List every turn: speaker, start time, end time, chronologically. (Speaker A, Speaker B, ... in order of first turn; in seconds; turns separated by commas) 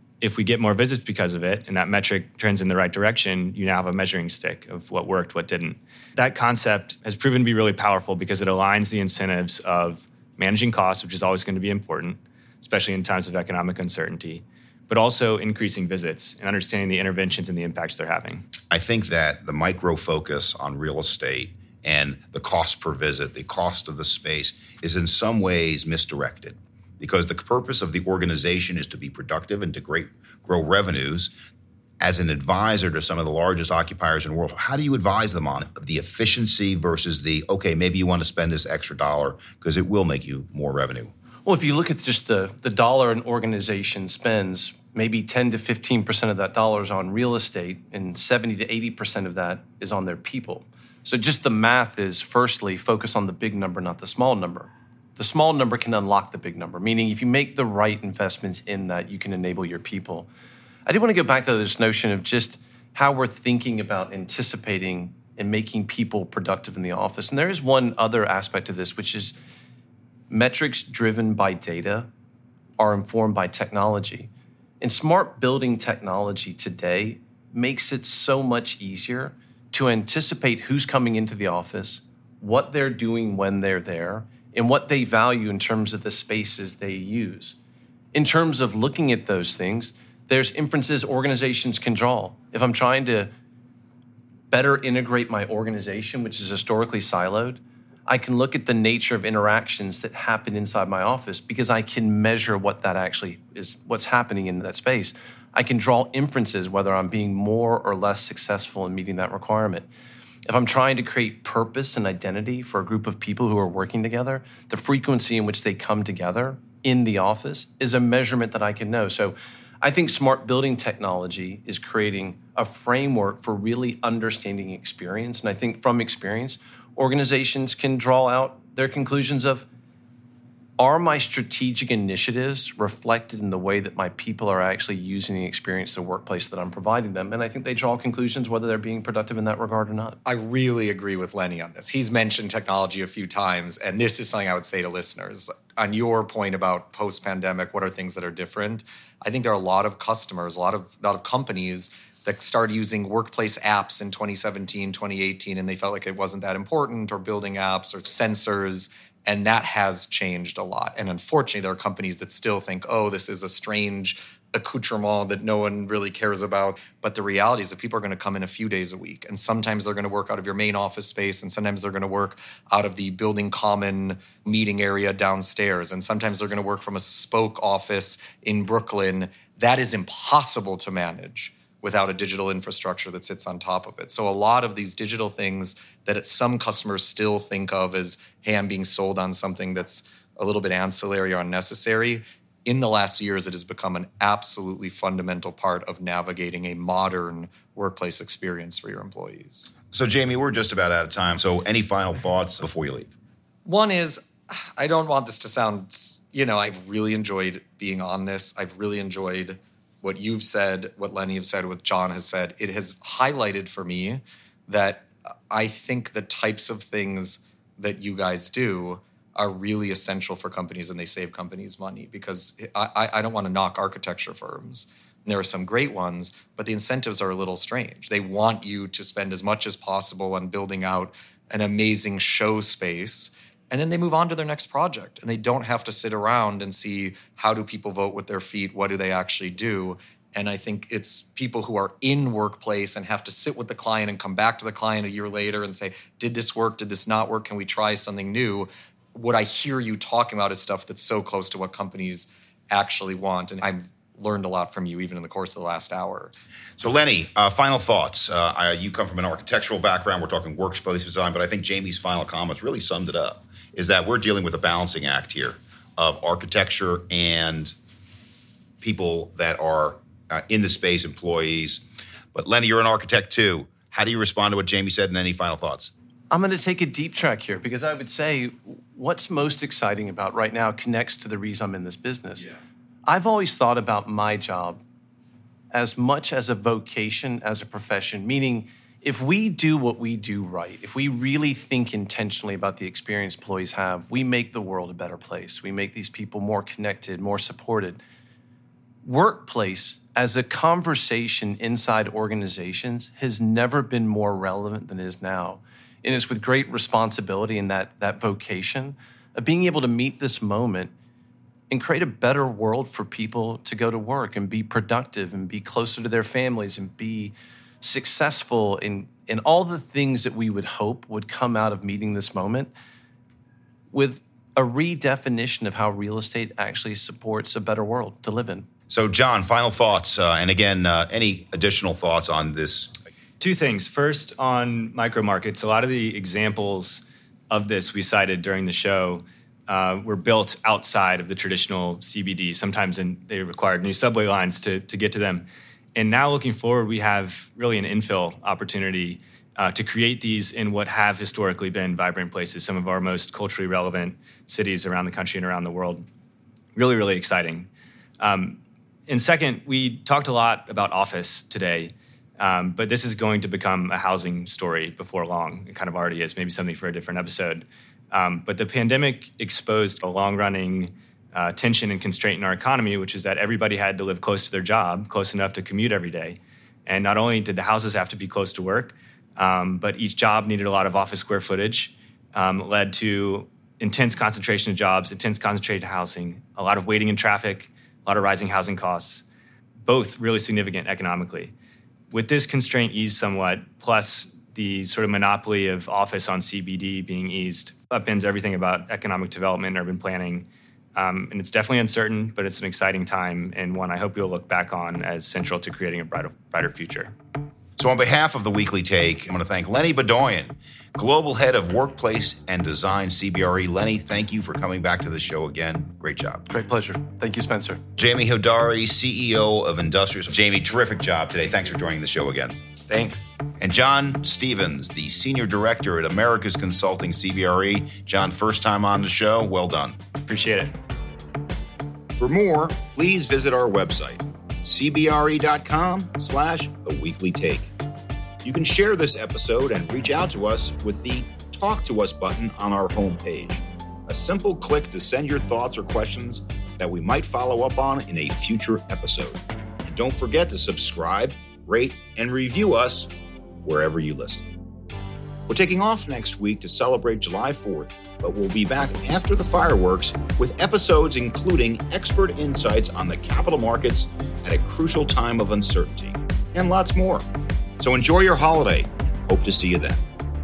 Speaker A: 0.2-18.5, Speaker B: 18.7-31.3, Speaker B: 32.0-41.1, Speaker C: 41.5-60.3, Speaker C: 60.9-69.4, Speaker C: 70.3-72.1, Speaker C: 72.8-74.3, Speaker C: 74.8-87.6, Speaker C: 88.1-93.3, Speaker C: 94.5-109.9, Speaker C: 110.5-129.7, Speaker C: 130.8-140.2, Speaker D: 140.2-199.7, Speaker B: 199.9-203.1, Speaker D: 203.7-256.3, Speaker B: 256.8-267.8, Speaker B: 268.8-271.8, Speaker B: 272.3-275.9, Speaker C: 276.3-282.5, Speaker C: 283.1-284.8, Speaker C: 285.7-298.0, Speaker C: 299.1-310.9, Speaker C: 311.7-322.7, Speaker C: 323.9-328.7, Speaker B: 328.9-332.9, Speaker A: 333.4-356.1, Speaker A: 356.8-357.7, Speaker A: 358.2-389.2, Speaker A: 389.9-391.5, Speaker A: 392.1-407.1, Speaker B: 407.8-416.5, Speaker C: 416.5-417.8, Speaker B: 418.0-422.6, Speaker D: 422.9-423.4, Speaker B: 423.6-430.0, Speaker A: 430.3-430.8, Speaker B: 432.1-437.7, Speaker B: 438.4-453.1, Speaker B: 453.6-454.5, Speaker B: 455.5-467.3, Speaker B: 467.8-470.0